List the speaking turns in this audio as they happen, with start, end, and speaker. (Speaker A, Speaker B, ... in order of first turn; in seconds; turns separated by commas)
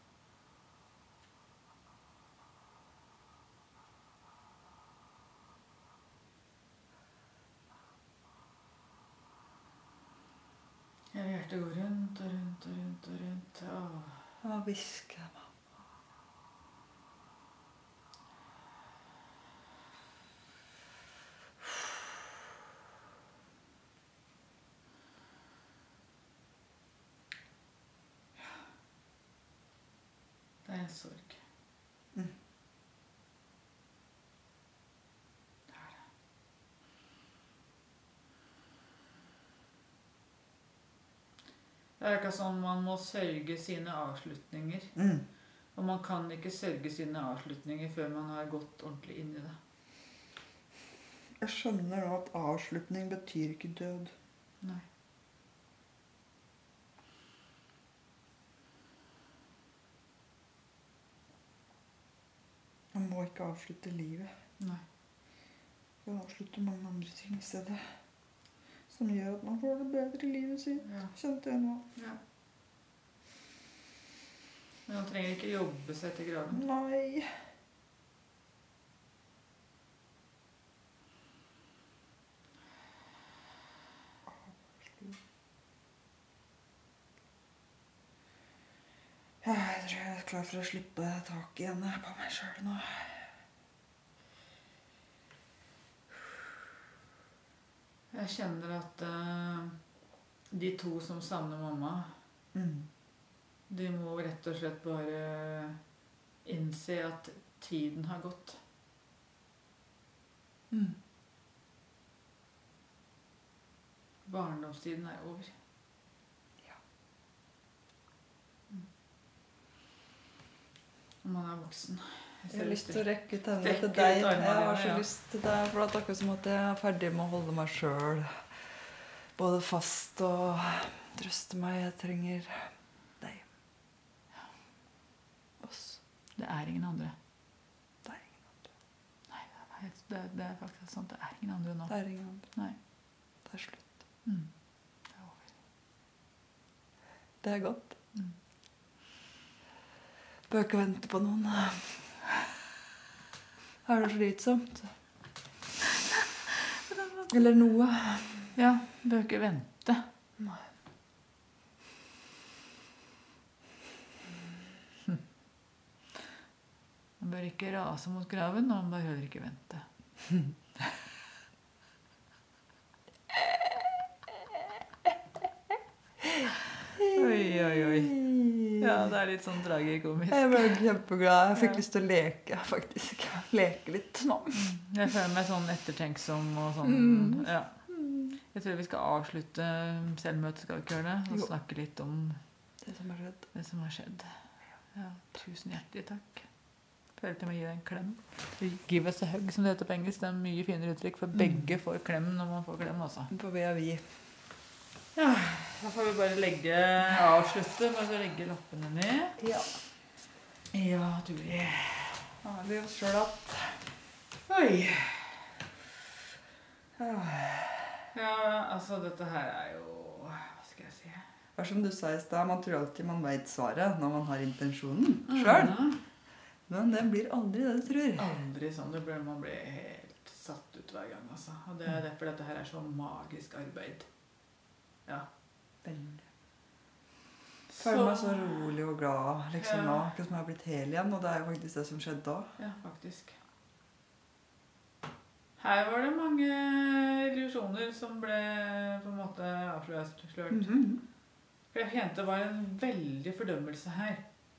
Speaker A: 11.1-14.2, Speaker B: 14.4-15.5, Speaker A: 30.6-31.4, Speaker A: 42.0-44.9, Speaker B: 45.0-45.2, Speaker A: 45.8-49.6, Speaker B: 51.4-54.1, Speaker B: 62.9-64.3, Speaker B: 66.0-67.9, Speaker B: 68.9-71.9, Speaker A: 70.8-71.1, Speaker A: 74.9-76.7, Speaker B: 76.5-77.4, Speaker B: 84.3-85.2, Speaker B: 89.4-93.2, Speaker A: 98.1-99.8, Speaker A: 100.5-102.1, Speaker B: 102.5-102.9, Speaker A: 103.7-105.8, Speaker A: 106.5-108.6, Speaker B: 110.7-111.0, Speaker A: 114.3-115.5, Speaker A: 121.2-123.0, Speaker B: 122.5-128.4, Speaker A: 123.6-125.0, Speaker B: 129.4-132.7, Speaker B: 133.2-133.5, Speaker B: 135.6-136.0, Speaker A: 136.4-137.2, Speaker B: 138.1-138.6, Speaker A: 139.3-141.9, Speaker B: 141.9-142.5, Speaker B: 143.4-143.9, Speaker A: 145.2-145.4, Speaker B: 147.4-147.9, Speaker B: 150.5-152.1, Speaker B: 153.8-154.9, Speaker A: 156.9-157.3, Speaker B: 157.3-158.5, Speaker A: 158.6-160.0, Speaker A: 167.2-169.9, Speaker B: 176.2-179.1, Speaker A: 177.1-178.2, Speaker A: 178.8-180.8, Speaker B: 180.3-184.7, Speaker A: 184.5-187.8, Speaker B: 186.8-188.4, Speaker A: 188.5-192.4, Speaker B: 192.8-193.4, Speaker A: 193.5-194.3, Speaker A: 194.9-196.5, Speaker A: 197.2-203.3, Speaker B: 201.4-201.6, Speaker B: 203.3-204.0, Speaker A: 205.2-209.4, Speaker B: 209.4-209.7, Speaker A: 210.7-212.3, Speaker B: 212.4-213.8, Speaker A: 214.5-215.4, Speaker B: 217.0-217.9, Speaker A: 218.1-221.2, Speaker B: 221.6-225.8, Speaker A: 225.3-226.0, Speaker B: 226.7-228.3, Speaker A: 228.2-234.1, Speaker B: 235.8-236.3, Speaker A: 237.7-238.8, Speaker B: 237.8-242.5, Speaker A: 239.6-240.1, Speaker A: 242.6-243.4, Speaker A: 245.6-250.8, Speaker B: 250.5-251.0, Speaker A: 251.7-254.2